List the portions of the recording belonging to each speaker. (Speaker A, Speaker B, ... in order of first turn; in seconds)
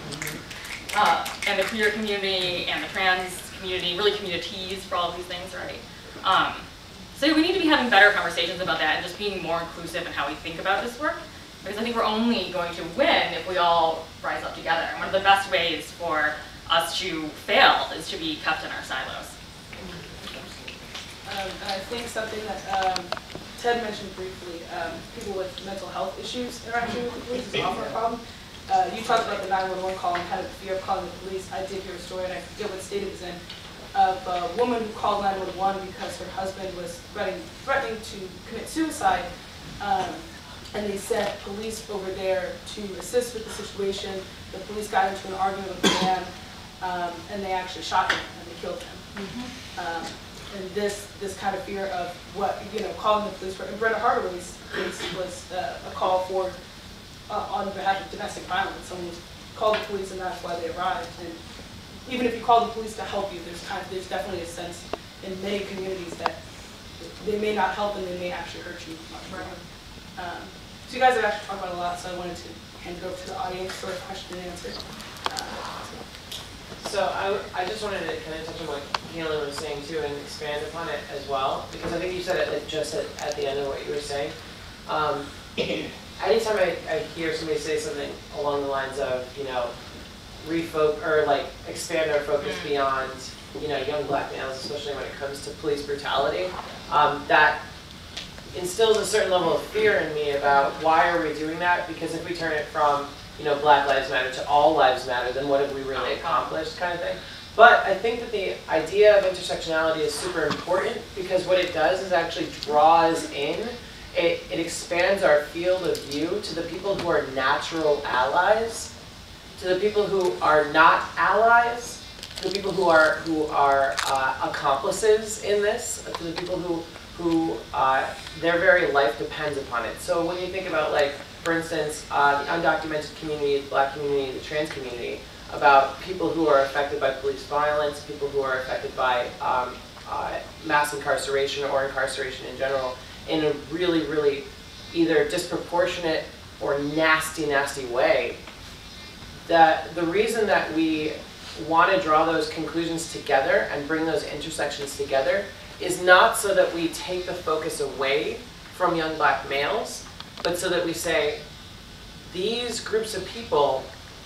Speaker A: 0.9-19.3, 92.4-92.7, 105.9-106.5
Speaker B: 21.2-33.4, 33.9-39.3, 39.8-49.0, 49.8-56.5, 57.3-61.4, 62.0-66.4, 67.1-69.6, 70.2-76.0
Speaker C: 76.8-84.3, 84.8-85.3, 86.2-89.8, 90.4-97.6, 98.5-118.9, 119.6-148.4, 149.4-161.4, 162.2-163.9